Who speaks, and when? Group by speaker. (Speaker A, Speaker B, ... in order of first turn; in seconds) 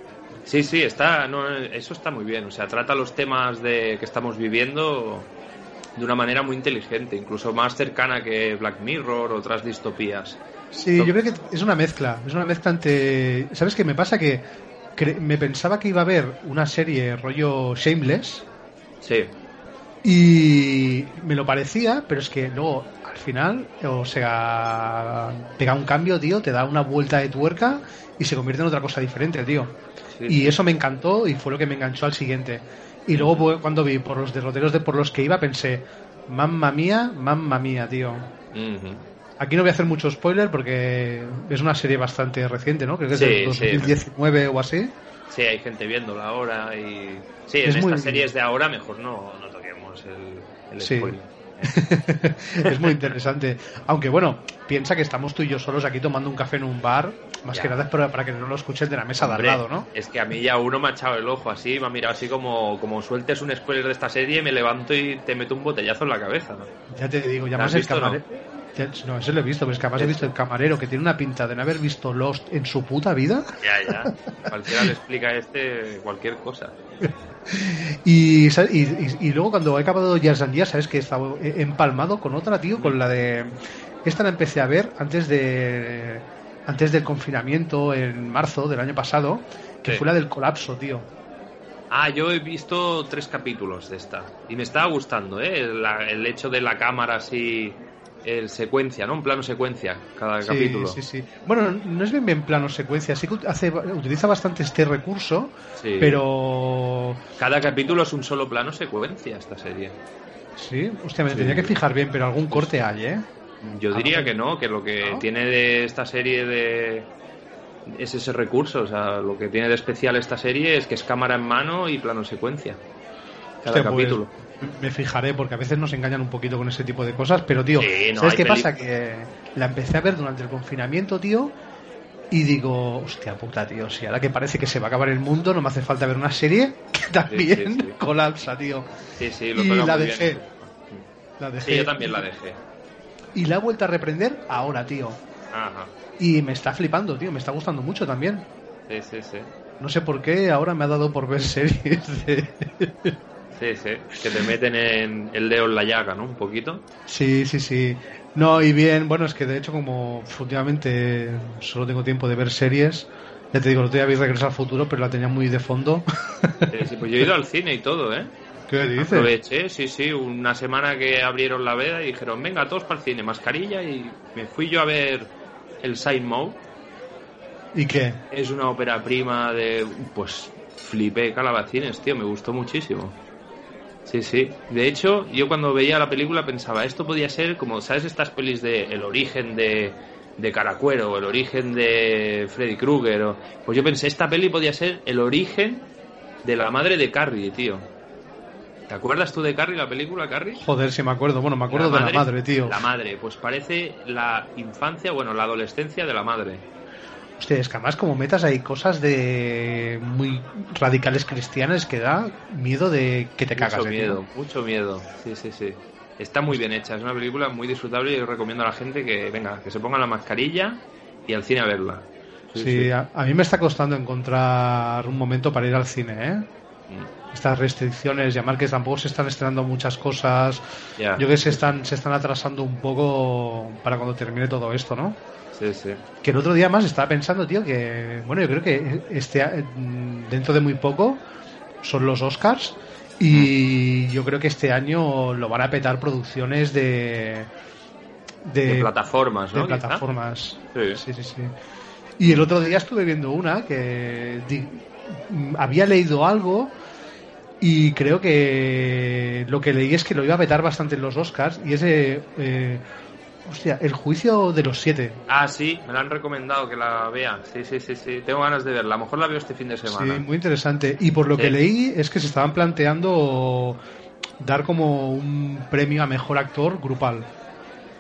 Speaker A: 0.5-5.3, 6.0-10.4, 19.0-19.3, 30.1-30.6, 33.1-33.5, 38.5-39.1, 43.1-44.0, 45.3-51.7, 52.6-53.1, 57.5-57.8, 59.2-66.7, 67.6-68.2, 70.0-70.3, 73.6-76.8, 91.9-101.0, 105.8-106.2, 107.4-110.0, 111.3-111.8, 113.6-117.1, 117.9-122.8, 123.6-124.3, 127.8-128.7, 137.3-138.0, 139.2-141.1, 141.6-142.6, 145.5-145.9, 148.9-149.5, 153.6-156.8, 166.7-168.3, 169.0-176.6, 178.3-183.2, 184.1-195.9, 196.4-197.9, 198.9-200.6, 201.7-206.7, 213.6-222.9, 231.0-231.6, 235.5-236.0, 248.7-250.0, 250.7-251.0, 265.3-270.2
Speaker B: 10.7-14.4, 15.0-18.5, 20.0-38.3, 39.4-44.9, 47.6-48.3, 50.8-59.9, 66.9-74.9, 77.0-91.1, 100.4-107.2, 110.6-113.3, 113.9-114.3, 115.0-115.3, 123.7-131.5, 132.3-138.9, 139.5-140.4, 141.4-142.2, 143.3-145.2, 146.2-148.5, 149.8-153.2, 157.1-166.7, 168.7-169.3, 177.7-178.2, 200.6-202.9, 207.4-214.2, 222.6-226.5, 227.3-230.6, 231.2-235.2, 236.2-241.2, 241.8-247.5, 248.4-248.9, 249.5-251.5, 252.2-256.7, 257.6-262.8, 263.4-265.2, 269.9-273.8, 274.4-277.3